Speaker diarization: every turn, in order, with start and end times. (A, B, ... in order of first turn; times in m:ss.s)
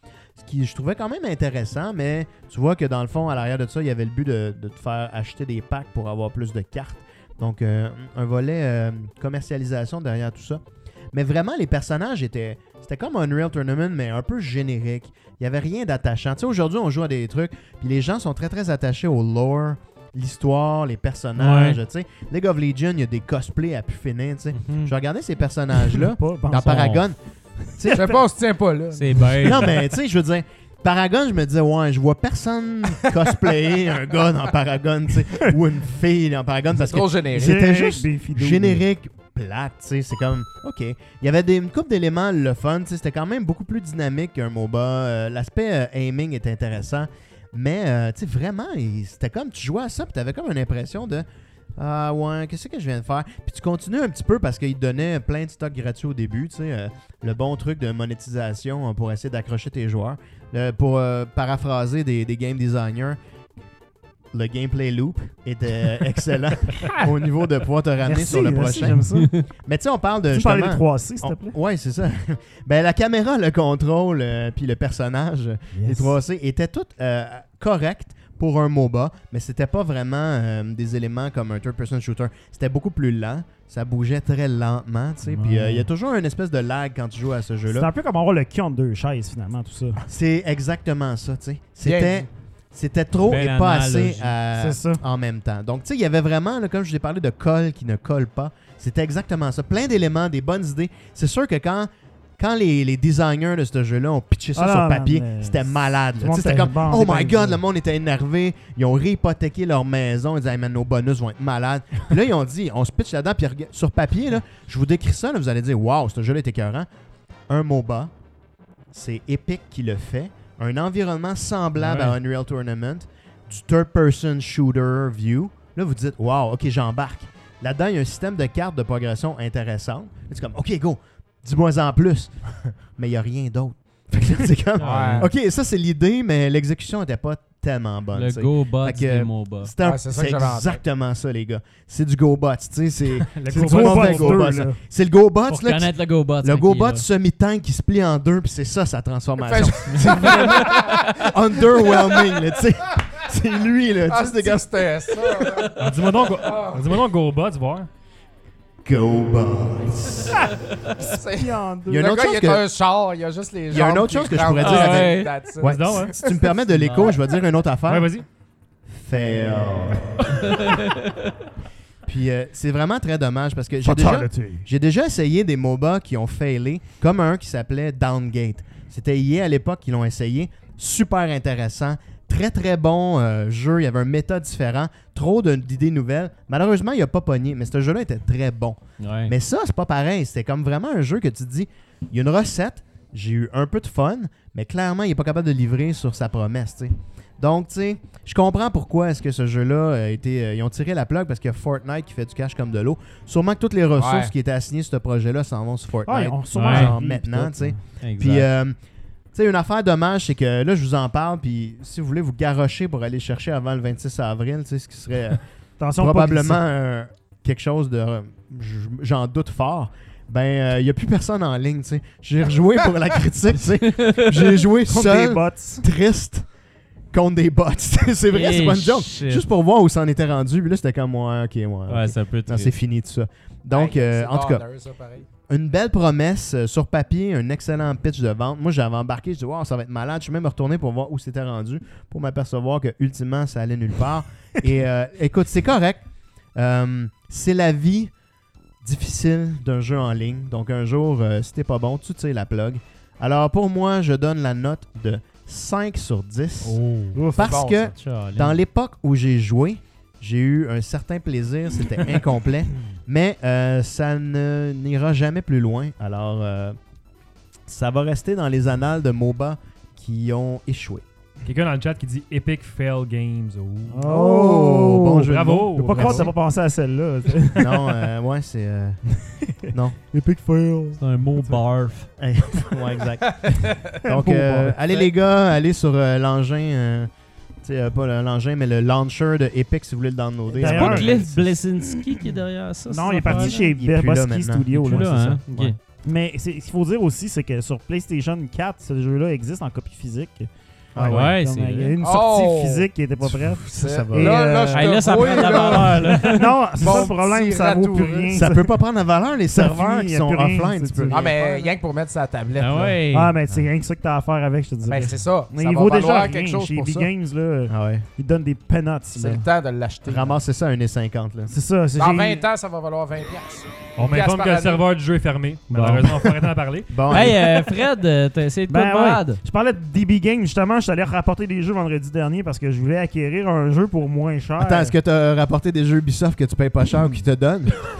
0:00.4-0:10.6 A
0:11.1-0:27.2 A
0:21.4-0:21.8 B
0:24.6-0:24.9 B
0:25.9-0:26.9 C
0:26.5-0:27.0 B
0:27.7-0:28.2 A
0:27.9-0:29.7 D
0:28.9-0:29.8 B
0:29.4-0:51.2 A
0:33.1-0:33.5 D
0:36.8-0:37.5 D
0:37.3-0:38.8 C
0:51.8-1:03.2 A
1:04.3-1:09.1 A
1:08.0-1:09.3 C
1:09.1-1:09.4 B
1:09.6-1:27.9 A
1:10.3-1:11.6 C
1:15.7-1:16.1 C
1:25.2-1:25.9 C
1:27.7-1:30.0 C
1:30.0-1:56.9 A
1:31.8-1:32.2 D
1:33.3-1:34.3 B
1:34.6-1:35.0 C
1:44.6-1:45.6 C
1:46.2-1:47.6 C
1:57.5-1:58.1 A
1:58.9-2:35.5 A
2:01.8-2:02.2 B
2:14.8-2:15.2 E
2:14.8-2:15.3 D
2:14.8-2:15.2 B
2:18.1-2:19.7 B
2:19.8-2:20.8 D
2:23.2-2:24.5 E
2:23.6-2:24.8 C
2:25.5-2:27.0 B
2:29.4-2:32.4 D
2:30.2-2:30.7 B
2:34.0-2:37.0 D
2:35.7-2:37.9 E
2:38.8-2:40.5 A
2:41.0-2:42.0 C
2:41.0-2:47.0 D
2:41.9-2:42.6 A
2:43.7-2:48.1 A
2:44.6-2:45.3 B
2:45.6-2:46.2 E
2:47.9-2:48.2 E
2:48.9-2:50.6 A
2:50.5-2:51.1 B
2:52.0-3:28.7 A
2:53.8-2:54.6 C
3:09.0-3:09.3 B
3:24.0-3:24.3 D
3:26.1-3:27.8 C
3:26.5-3:26.9 B
3:28.0-3:28.5 B
3:29.3-3:35.4 A
3:35.8-3:36.6 C
3:36.0-3:46.4 A
3:43.8-3:44.4 B
3:44.9-3:45.8 C
3:47.1-3:54.6 A
3:48.3-3:49.4 B
3:51.9-3:52.7 B
3:53.7-3:55.2 D
3:55.5-4:06.0 A
4:06.6-4:08.1 A
4:08.8-4:16.8 A
4:16.6-4:17.2 B
4:17.1-4:17.5 C
4:17.3-4:26.8 A
4:17.4-4:17.9 D
4:17.8-4:18.6 B
4:27.7-4:31.0 A
4:31.4-4:34.1 E
4:33.9-4:38.1 C
4:34.0-4:36.3 A
4:35.2-4:36.3 E
4:37.6-4:39.0 A
4:39.7-4:40.0 A
4:40.1-4:41.6 C
4:41.0-4:42.1 B
4:42.2-4:47.1 A
4:43.4-4:43.8 D
4:44.0-4:44.8 C
4:47.6-4:51.4 A
4:50.5-4:51.5 C
4:50.6-4:53.7 B
4:52.9-5:08.7 C
4:53.2-4:55.4 A
4:54.7-4:55.8 B
5:00.9-5:01.3 A
5:01.0-5:02.0 B
5:02.0-5:02.9 D
5:03.2-5:04.7 A
5:03.8-5:08.4 D
5:04.7-5:06.6 B
5:06.8-5:07.1 A
5:08.3-5:11.3 A
5:09.5-5:11.7 C
5:11.1-5:13.0 D
5:12.6-5:13.4 B
5:13.1-5:19.4 C
5:14.8-5:17.1 D
5:17.7-5:18.0 A
5:19.1-5:20.4 D
5:20.0-5:21.5 A
5:21.5-5:22.4 C
5:21.9-5:24.8 D
5:24.0-5:27.2 E
5:25.7-5:26.1 B
5:26.9-5:27.4 A
5:27.1-5:29.4 B
5:28.7-5:34.9 C
5:34.6-5:37.8 A